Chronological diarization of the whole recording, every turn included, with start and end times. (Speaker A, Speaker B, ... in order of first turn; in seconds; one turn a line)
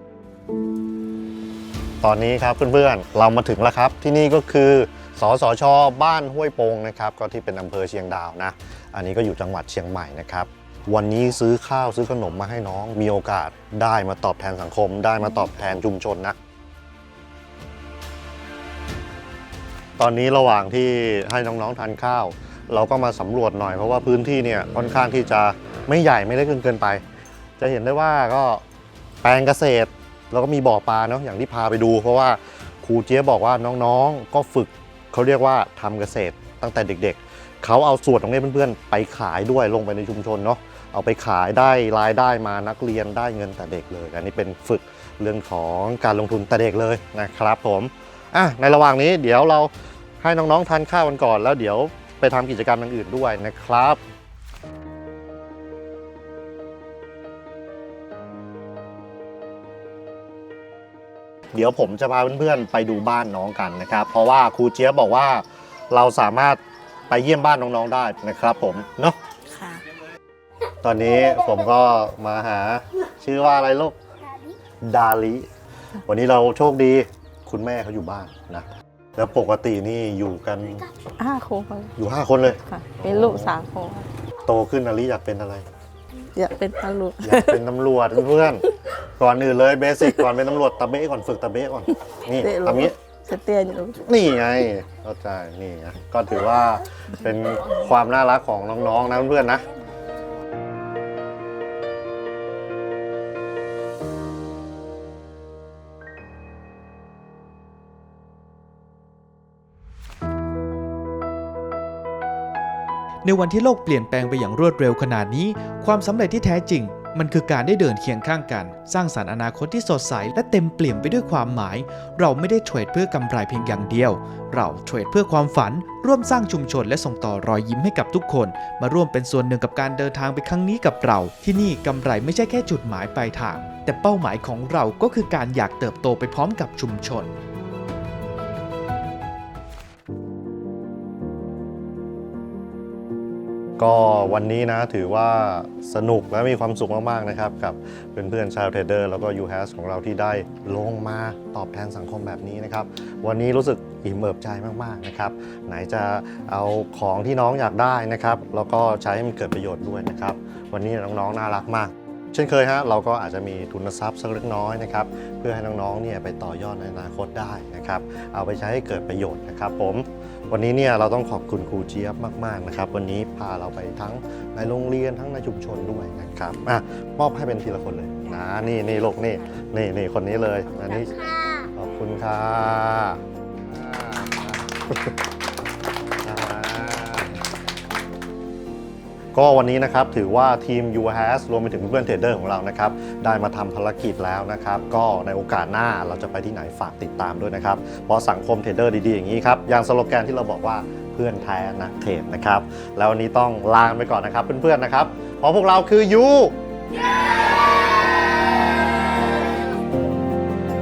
Speaker A: 2.0-16.4
Speaker A: 20.0-27.0
Speaker A: 27.6-28.6
Speaker A: 29.2-54.0
Speaker A: 61.5-69.2
Speaker B: 69.5-69.8
Speaker A: 70.8-74.0
Speaker A: 74.8-75.5
Speaker A: 76.0-80.9
Speaker B: 81.2-81.9
Speaker A: 82.0-83.6
Speaker B: 82.6-84.1
Speaker A: 84.5-85.6
Speaker B: 86.2-87.6
Speaker A: 87.2-92.9
Speaker B: 92.4-94.0
Speaker A: 94.0-99.7
Speaker C: 113.2-137.3
Speaker A: 143.8-185.1
Speaker A: 186.2-187.4
Speaker A: 189.3-206.5